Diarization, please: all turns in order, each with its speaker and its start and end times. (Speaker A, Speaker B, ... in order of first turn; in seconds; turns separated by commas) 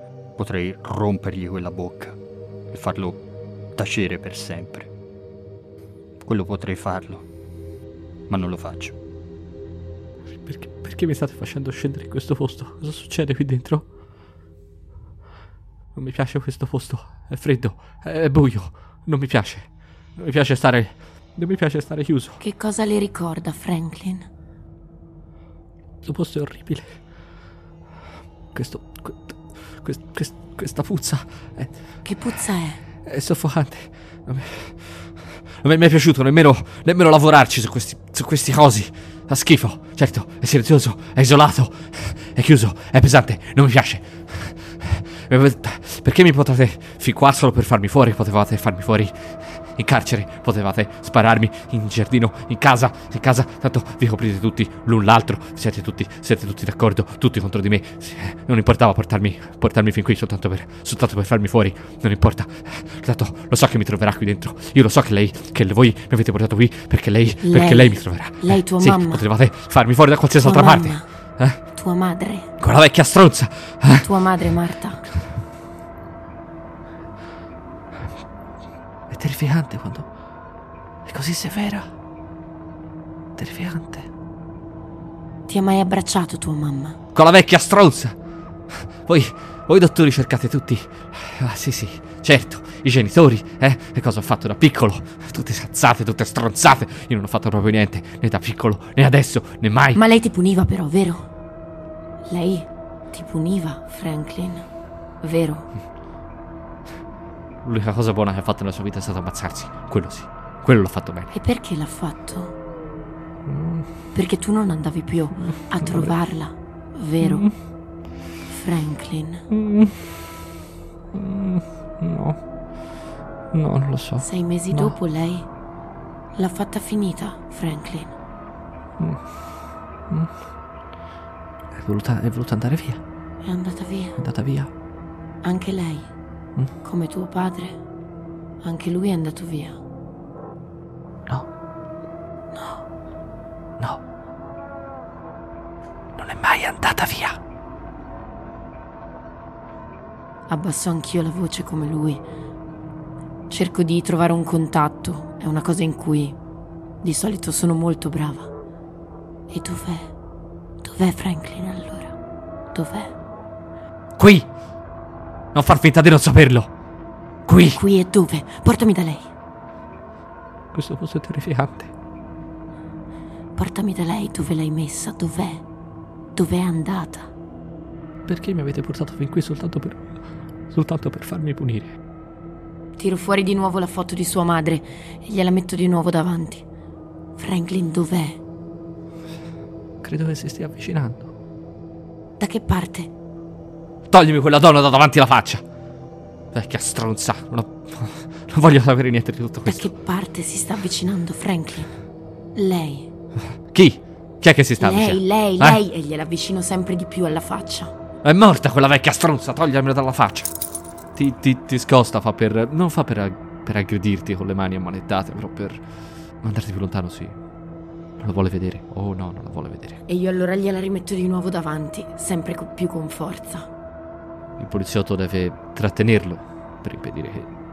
Speaker A: 0.4-2.1, Speaker A: 2.7-3.2, Speaker A: 3.8-4.9, Speaker A: 6.2-7.2, Speaker A: 8.3-8.9, Speaker B: 10.4-13.9, Speaker B: 15.9-22.4, Speaker C: 22.4-24.3, Speaker B: 26.0-27.0, Speaker B: 28.5-32.0, Speaker C: 32.0-32.8, Speaker B: 33.0-71.6, Speaker C: 67.4-69.2, Speaker C: 70.4-71.1, Speaker C: 71.7-72.5, Speaker B: 72.6-74.1, Speaker C: 74.0-75.0, Speaker B: 79.1-80.1, Speaker B: 81.0-81.9, Speaker B: 83.4-84.1, Speaker C: 85.5-87.0, Speaker B: 87.1-88.2, Speaker B: 88.7-100.0, Speaker C: 99.9-101.3, Speaker C: 102.3-104.7, Speaker C: 105.2-105.7, Speaker B: 107.6-111.3, Speaker C: 111.3-112.5, Speaker B: 113.5-113.9, Speaker C: 114.1-117.5, Speaker B: 115.8-116.1, Speaker B: 117.2-117.5, Speaker C: 118.5-119.5, Speaker B: 119.5-120.3, Speaker B: 121.1-122.4, Speaker B: 123.5-124.9, Speaker C: 124.2-125.5, Speaker C: 126.3-128.2, Speaker B: 129.0-129.5, Speaker B: 130.1-130.3, Speaker B: 131.7-133.0, Speaker C: 133.4-134.2, Speaker B: 134.2-134.7, Speaker C: 135.4-136.1, Speaker C: 136.8-137.8, Speaker C: 138.6-139.8, Speaker C: 142.5-142.8, Speaker B: 146.2-147.4, Speaker C: 150.5-152.2, Speaker C: 153.5-156.4, Speaker C: 157.0-158.5, Speaker C: 159.5-160.1, Speaker C: 160.8-162.2, Speaker C: 162.7-163.1, Speaker B: 164.2-164.5, Speaker B: 165.5-166.7, Speaker B: 167.5-167.8, Speaker C: 167.7-169.3, Speaker B: 170.7-171.9, Speaker C: 173.6-175.6, Speaker C: 176.3-177.3, Speaker B: 178.2-182.0, Speaker C: 183.0-186.7, Speaker C: 187.3-188.4, Speaker B: 190.0-191.3, Speaker C: 192.4-193.1, Speaker B: 194.1-195.6, Speaker B: 196.5-199.9, Speaker C: 199.7-201.9, Speaker C: 202.5-203.1, Speaker B: 203.7-205.8, Speaker C: 204.8-207.9, Speaker B: 208.2-210.5, Speaker B: 211.1-215.9, Speaker B: 216.4-217.4, Speaker B: 218.2-220.0, Speaker C: 220.1-223.7, Speaker B: 224.6-227.5